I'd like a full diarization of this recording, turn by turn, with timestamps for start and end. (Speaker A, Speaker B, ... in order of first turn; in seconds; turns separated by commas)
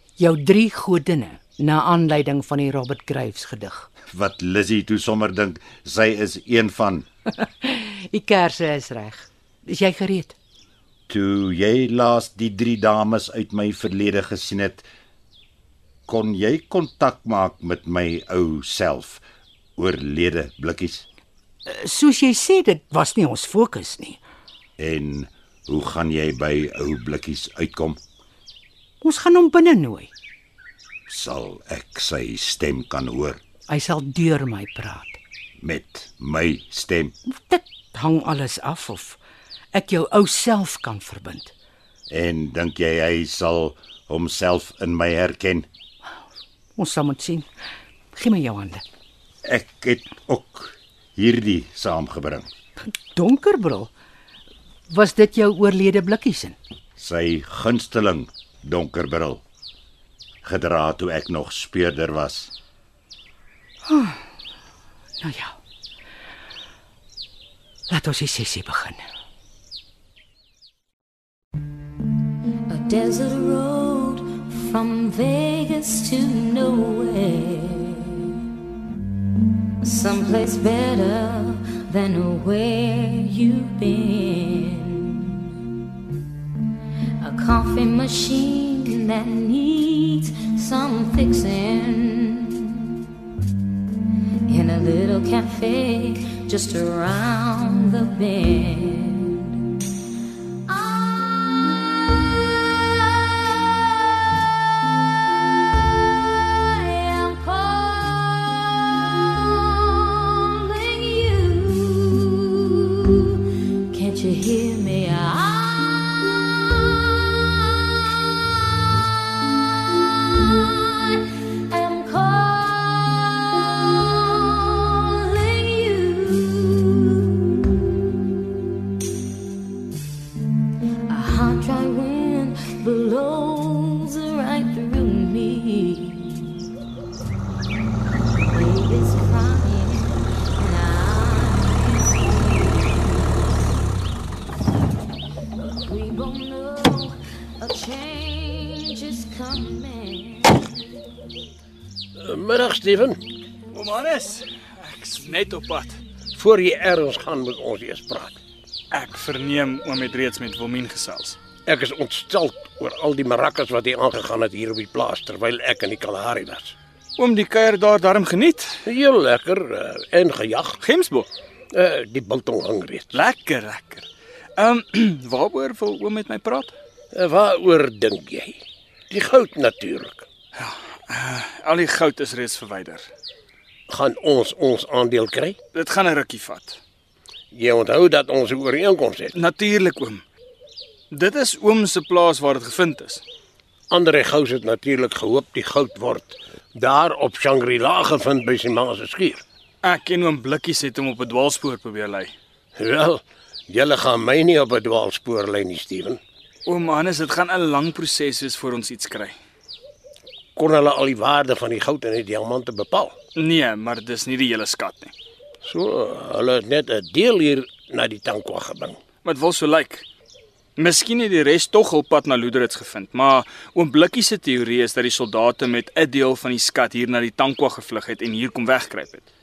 Speaker A: 0.2-3.9, Speaker B: 4.1-7.0, Speaker A: 7.4-10.3, Speaker B: 11.1-14.9, Speaker B: 16.1-19.2, Speaker B: 19.8-21.1, Speaker A: 21.6-24.2, Speaker B: 24.8-28.0, Speaker A: 29.0-30.1, Speaker B: 31.1-33.4, Speaker A: 33.7-35.2, Speaker B: 35.6-37.1, Speaker A: 37.3-39.2, Speaker A: 39.7-41.5, Speaker B: 42.1-45.6, Speaker A: 46.8-47.5, Speaker A: 48.1-48.8, Speaker B: 49.4-52.5, Speaker A: 52.9-53.9, Speaker A: 54.9-56.6, Speaker B: 57.0-59.4, Speaker B: 60.4-62.5, Speaker A: 63.8-64.3, Speaker A: 65.2-65.5, Speaker A: 67.9-69.0, Speaker C: 72.7-78.3, Speaker C: 79.8-85.5, Speaker C: 87.2-93.1, Speaker C: 94.5-99.6, Speaker C: 100.7-104.4, Speaker C: 105.3-128.1, Speaker C: 131.1-136.6, Speaker C: 138.5-143.7, Speaker C: 145.6-150.7, Speaker D: 152.2-153.2, Speaker E: 153.7-156.0, Speaker D: 156.3-158.4, Speaker E: 158.9-161.4, Speaker D: 161.7-166.7, Speaker E: 167.2-168.8, Speaker D: 168.8-170.8, Speaker E: 170.8-171.3, Speaker D: 171.7-173.2, Speaker E: 173.1-176.7, Speaker D: 177.1-180.2, Speaker E: 180.6-183.1, Speaker D: 183.9-185.6, Speaker E: 185.7-186.8, Speaker D: 187.5-189.3, Speaker E: 189.3-190.2, Speaker E: 191.1-193.2, Speaker D: 193.9-199.4, Speaker E: 199.8-202.3, Speaker D: 202.8-206.2, Speaker E: 206.7-209.3, Speaker D: 210.6-213.1, Speaker E: 213.4-215.1, Speaker D: 215.6-219.0, Speaker E: 219.2-220.1, Speaker E: 220.8-229.2